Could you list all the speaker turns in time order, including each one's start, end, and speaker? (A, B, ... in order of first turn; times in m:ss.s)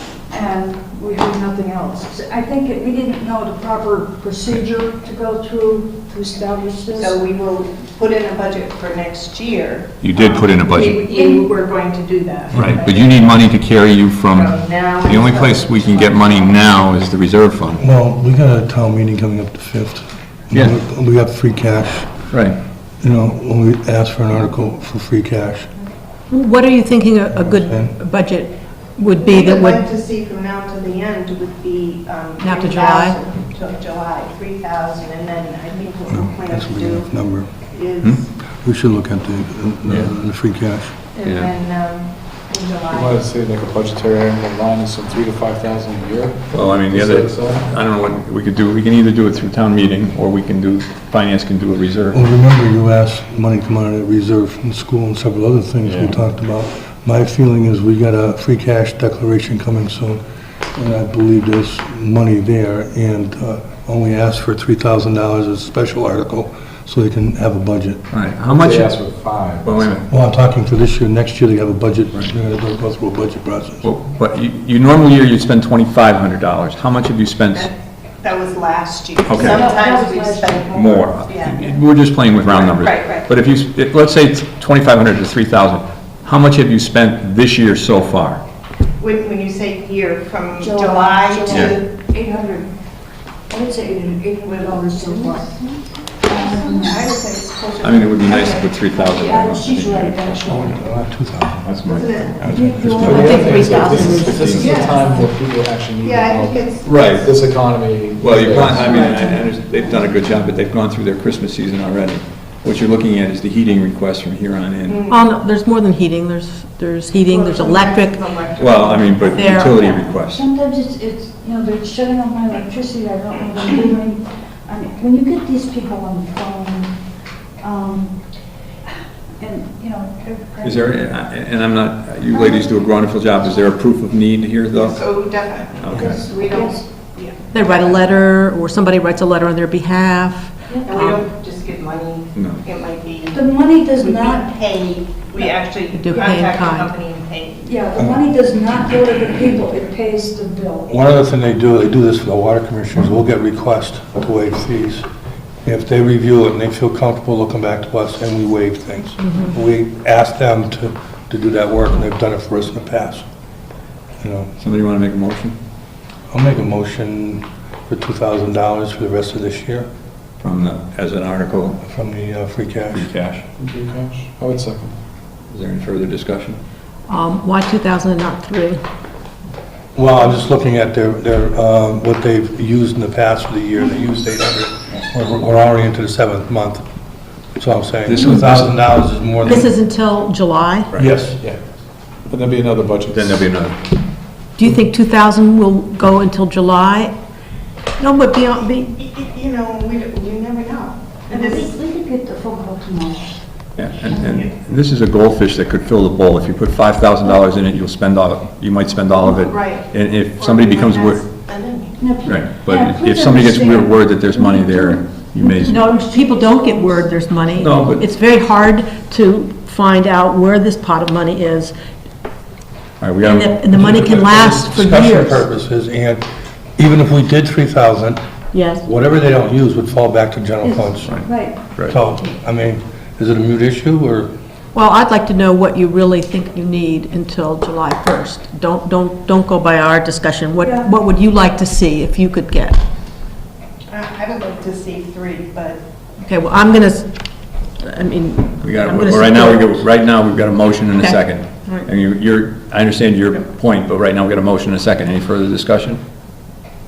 0:00.3-0:07.2 A
0:07.0-0:13.5 B
0:10.0-0:11.0 C
0:11.1-0:11.5 A
0:12.5-0:17.8 C
0:14.3-0:16.6 B
0:17.8-0:22.2 D
0:22.3-0:22.6 C
0:23.0-0:25.7 D
0:26.3-0:29.8 E
0:27.4-0:27.9 D
0:29.2-0:37.2 B
0:32.4-0:33.2 E
0:36.1-0:37.5 D
0:37.7-0:38.2 B
0:38.6-0:40.9 D
0:41.1-0:43.2 B
0:41.2-0:41.5 C
0:42.9-0:47.7 F
0:46.5-0:52.2 C
0:52.1-1:00.2 D
0:55.8-0:56.1 C
1:00.7-1:08.0 D
1:08.1-1:09.0 C
1:08.4-1:10.0 F
1:09.6-1:10.1 C
1:10.1-1:13.8 D
1:13.8-1:17.7 C
1:17.5-1:21.7 B
1:19.3-1:19.7 C
1:19.4-1:21.0 A
1:20.7-1:28.4 C
1:22.4-1:23.3 B
1:29.0-1:32.1 B
1:30.6-1:32.7 A
1:33.5-1:35.6 A
1:34.4-1:38.6 B
1:36.2-1:37.2 A
1:37.8-1:40.5 C
1:38.3-1:40.9 A
1:40.5-1:41.8 D
1:41.8-1:42.6 B
1:42.4-1:44.0 D
1:42.5-1:43.2 A
1:42.9-1:44.5 E
1:42.9-1:49.1 F
1:44.2-1:44.8 C
1:44.5-1:45.2 B
1:46.0-1:47.1 B
1:46.8-1:47.4 C
1:48.2-1:55.1 C
1:48.9-1:49.4 B
1:49.0-1:49.4 A
1:54.9-1:55.2 B
1:55.1-1:58.2 E
1:57.2-2:00.1 B
1:58.6-2:00.4 C
1:59.3-1:59.8 E
1:59.7-2:06.9 A
2:07.6-2:08.1 A
2:09.4-2:11.1 A
2:10.6-2:15.2 C
2:12.3-2:12.6 A
2:14.7-2:17.9 B
2:15.8-2:16.2 C
2:15.9-2:16.2 F
2:16.0-2:16.8 A
2:17.5-2:21.2 E
2:20.8-2:27.7 B
2:22.3-2:22.6 C
2:23.3-2:24.5 A
2:25.4-2:26.9 E
2:27.6-2:30.9 A
2:28.0-2:28.2 D
2:30.9-2:35.0 D
2:35.6-2:43.2 D
2:44.2-2:44.5 D
2:44.6-2:45.6 C
2:46.3-2:49.9 D
2:50.4-2:51.8 C
2:51.8-2:53.1 D
2:52.9-2:53.4 C
2:53.6-2:55.0 F
2:55.5-2:56.6 C
2:57.1-2:58.8 E
2:59.9-3:06.8 D
3:07.6-3:09.7 D
3:08.0-3:09.0 C
3:09.4-3:10.9 E
3:11.0-3:11.6 F
3:11.0-3:11.4 D
3:12.2-3:13.4 F
3:13.1-3:13.8 C
3:14.6-3:17.1 E
3:18.0-3:18.9 E
3:18.9-3:21.7 B
3:21.3-3:23.4 A
3:23.8-3:31.2 C
3:24.1-3:24.5 B
3:29.3-3:32.0 B
3:32.0-3:37.1 A
3:32.2-3:35.8 C
3:35.6-3:41.7 E
3:37.6-3:38.0 C
3:43.0-3:44.5 C
3:43.2-3:45.4 E
3:43.7-3:46.2 D
3:46.8-3:48.2 D
3:48.5-3:48.8 E
3:48.8-3:51.3 D
3:51.0-3:52.0 C
3:51.2-3:51.6 A
3:51.8-3:54.3 D
3:54.7-4:02.8 E
4:00.6-4:00.9 A
4:03.9-4:05.8 B
4:06.2-4:07.1 E
4:07.8-4:09.8 E
4:08.6-4:16.0 C
4:10.9-4:11.9 E